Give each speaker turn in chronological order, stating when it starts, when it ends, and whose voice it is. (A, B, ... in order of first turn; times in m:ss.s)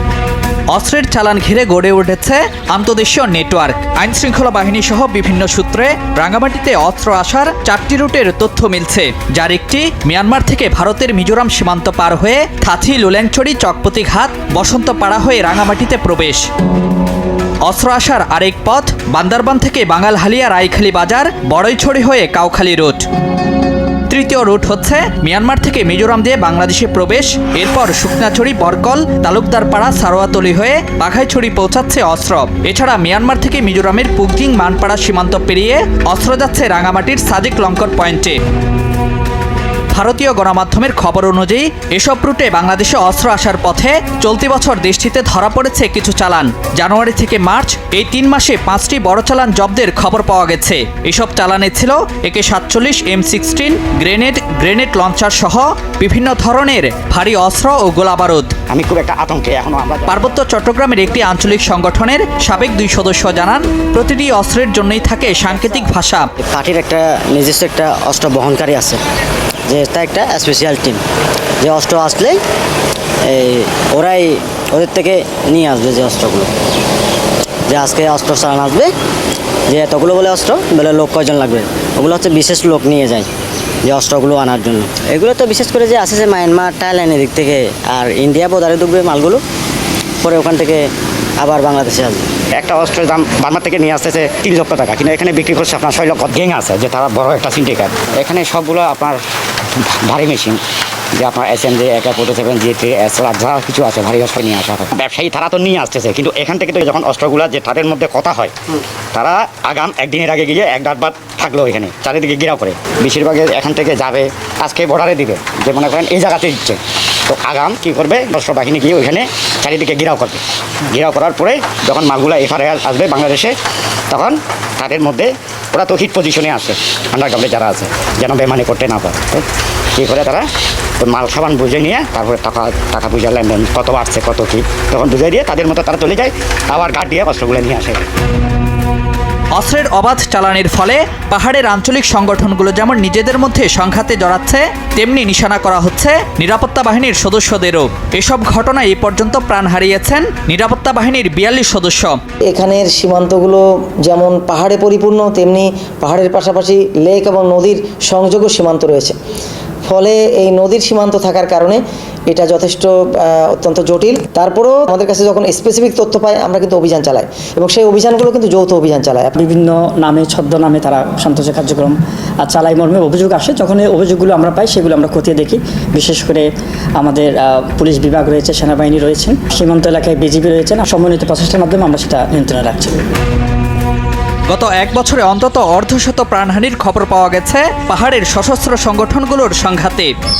0:00.7-0:16.4 A
0:17.6-0:23.0 A
0:24.1-0:38.4 A
0:39.9-0:58.5 A
0:58.7-1:00.3 B
1:00.1-1:06.3 A
1:06.5-1:09.0 C
1:09.7-1:11.0 C
1:11.6-1:12.4 C
1:13.3-1:16.5 C
1:17.7-1:18.9 C
1:19.7-1:23.3 C
1:23.8-1:29.4 C
1:30.2-1:30.9 C
1:31.4-1:32.2 C
1:32.6-1:39.2 B
1:39.8-1:40.6 B
1:41.2-1:48.5 B
1:49.1-2:03.5 B
2:04.1-2:09.4 B
2:10.0-2:10.4 B
2:11.0-2:18.0 B
2:19.5-2:32.2 A
2:32.5-2:39.2 D
2:39.8-2:49.3 D
2:49.3-2:56.4 E
2:57.0-3:03.0 E
3:04.5-3:10.1 A